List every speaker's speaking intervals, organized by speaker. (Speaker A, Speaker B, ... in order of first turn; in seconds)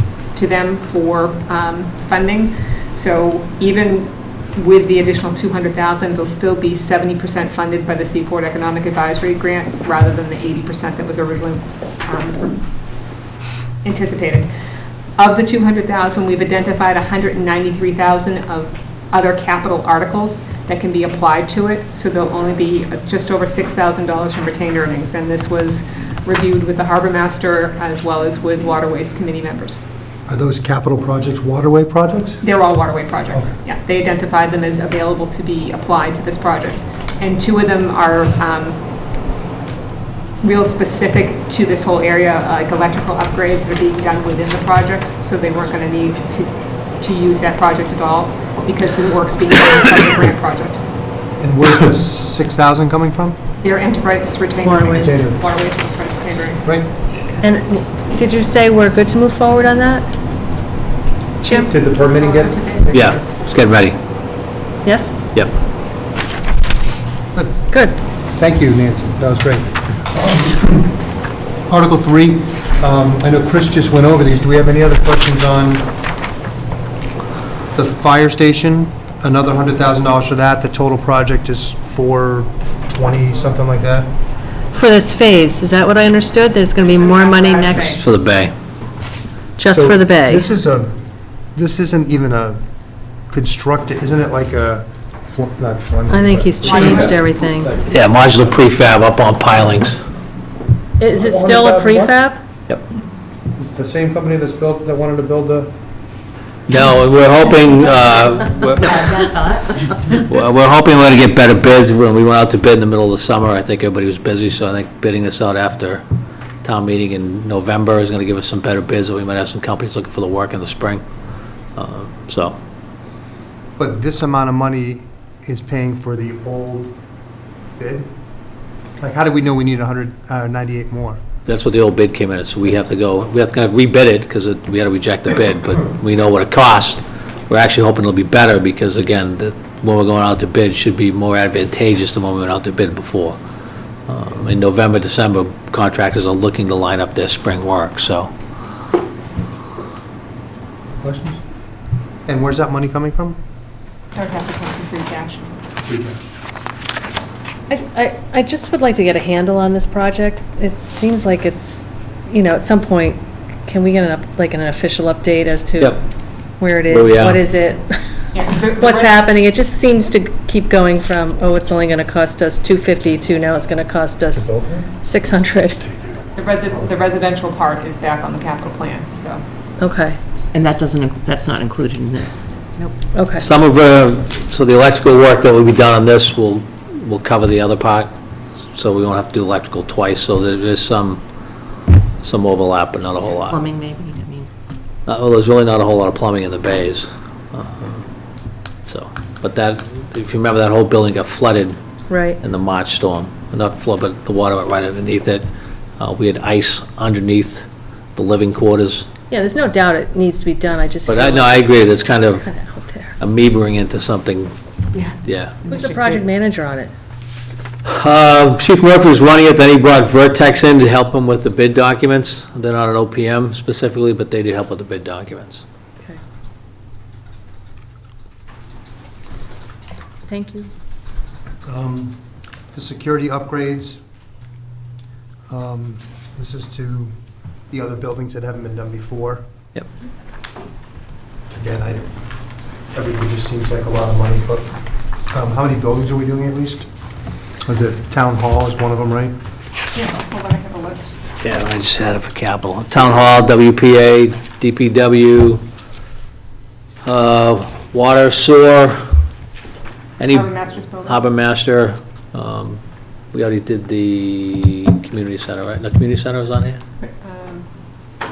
Speaker A: 0.3-12.7, 13.8-14.5, 15.2-29.8, 32.4-38.8, 40.4-50.8, 53.6-56.8, 61.4-63.2, 86.9-88.0, 96.6-97.2, 154.2-155.5, 168.3-169.3, 176.3-179.4, 249.9-251.1, 260.3-261.2, 267.0-267.7
Speaker B: 30.3-32.4, 51.4-53.4, 54.9-55.5, 61.7-63.2, 67.3-67.7, 68.3-71.0, 71.7-75.9, 77.7-84.1, 89.7-91.0, 91.5-92.6, 93.3-98.6, 101.1-102.2, 103.5-105.7, 123.8-127.0, 127.8-128.1, 129.0-131.2, 151.0-151.4, 152.2-153.4, 155.8-156.2, 174.3-174.9, 231.6-234.0, 235.5-237.2, 237.7-239.4, 241.5-242.1, 242.9-244.7, 245.3-246.9, 247.6-249.4
Speaker C: 54.6-55.2, 57.4-60.1, 61.4-61.7, 64.8-65.2, 67.7-68.0, 84.7-88.0, 89.6-90.5, 96.1-97.8, 101.0-102.4, 157.7-166.0, 166.6-168.0, 168.7-174.5, 175.0-175.8, 179.8-180.2, 183.1-183.4, 202.1-202.4, 209.3-213.2, 215.7-216.9, 230.3-230.7
Speaker D: 62.9-64.0, 87.8-88.5, 97.9-100.0, 106.7-109.1, 110.2-116.0, 116.6-121.0, 121.8-122.6, 131.5-143.4, 144.1-148.3, 166.9-167.5, 183.3-188.1, 188.7-191.2, 192.2-193.6, 195.1-198.1, 198.9-201.8, 202.4-205.5, 206.0-209.1, 211.1-212.5, 213.2-214.5, 215.2-215.7, 217.8-225.6, 251.4-255.6, 257.0-259.0, 260.2-260.5, 261.0-262.8, 263.3-266.8
Speaker E: 108.8-110.2, 180.6-182.9, 193.5-194.5